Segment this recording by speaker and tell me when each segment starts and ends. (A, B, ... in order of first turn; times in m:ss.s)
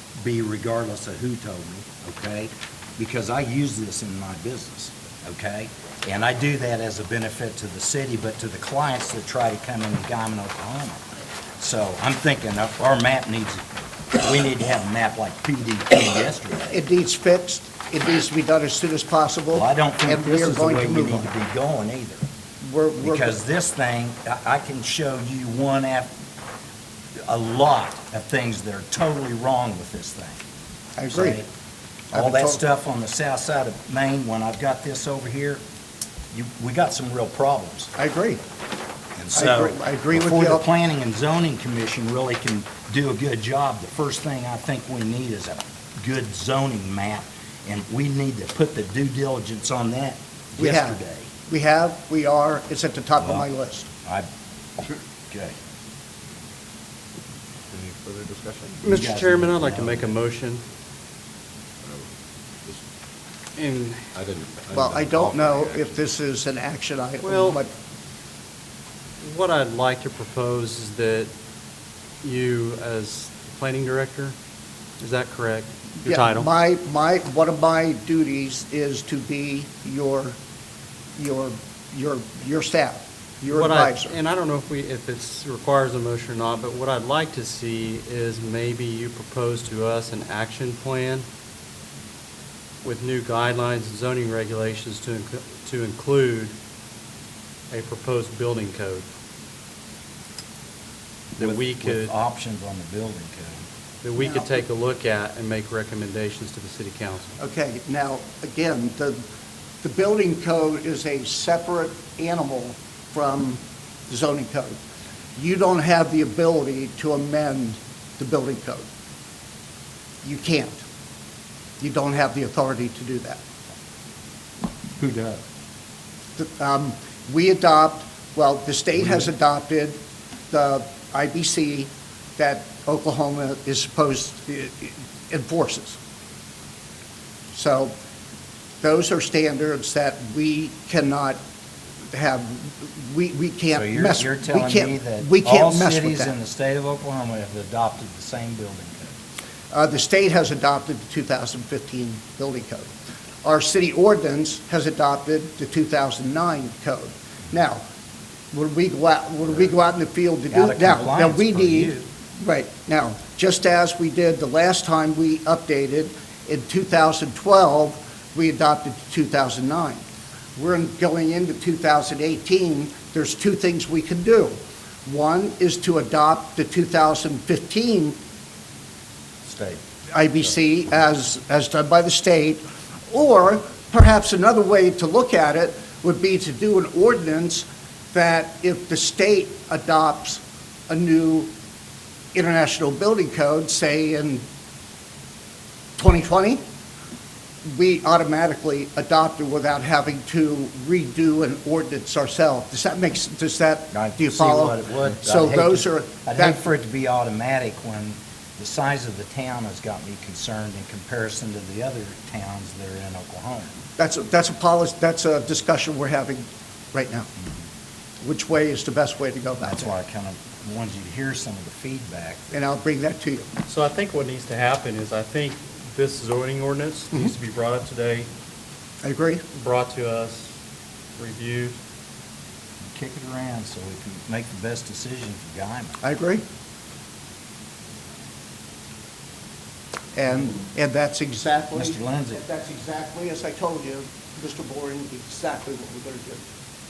0:00.2-0:11.0 A
0:11.6-0:16.7 A
0:16.7-0:21.3 B
0:19.5-0:22.2 A
0:22.6-0:23.4 B
0:23.0-0:26.1 A
0:27.2-0:30.4 A
0:31.0-0:31.4 B
0:31.1-0:31.5 A
0:32.1-0:32.6 B
0:32.1-0:35.6 A
0:36.3-0:37.9 A
0:38.0-0:38.4 B
0:39.2-0:51.3 A
0:39.3-0:40.6 B
0:50.6-0:53.9 B
0:53.2-0:53.4 A
0:55.3-0:55.6 A
0:57.7-0:58.9 C
0:58.8-1:00.1 A
0:58.8-1:00.6 D
1:01.8-1:02.1 C
1:03.6-1:04.1 D
1:04.1-1:05.9 C
1:04.7-1:07.7 B
1:07.2-1:07.6 D
1:09.2-1:11.3 D
1:12.2-1:14.4 D
1:15.0-1:16.5 D
1:16.0-1:20.4 B
1:21.2-1:24.2 B
1:23.5-1:31.2 D
1:32.8-1:36.6 D
1:37.7-1:39.1 D
1:41.4-1:42.1 D
1:41.4-1:43.7 A
1:44.0-1:47.3 D
1:44.1-1:44.6 B
1:47.4-1:49.2 B
1:49.8-1:54.8 B
1:55.4-1:58.9 B
2:00.2-2:00.8 B
2:01.8-2:03.4 B
2:05.0-2:05.4 A
2:06.4-2:10.0 B
2:10.5-2:16.0 B
2:17.5-2:17.9 B
2:18.8-2:21.4 B
2:22.1-2:26.3 B
2:23.7-2:29.2 A
2:29.7-2:32.9 B
2:33.4-2:37.8 B
2:38.5-2:50.0 B
2:40.5-2:42.1 A
2:50.6-2:58.2 B
2:59.4-2:59.8 A
3:00.1-3:11.5 B
3:12.3-3:14.4 B
3:16.0-3:16.6 B
3:17.6-3:26.6 B
3:23.9-3:33.7 A
3:34.0-3:37.3 B
3:38.2-3:39.9 B
3:39.6-3:42.5 A
3:42.5-3:43.5 B
3:43.6-3:48.3 D
3:49.0-3:49.4 B
3:49.5-3:50.6 D
3:51.2-3:51.8 D
3:52.8-3:56.0 A
3:56.0-3:56.4 B
4:00.1-4:06.4 B
4:01.7-4:02.4 A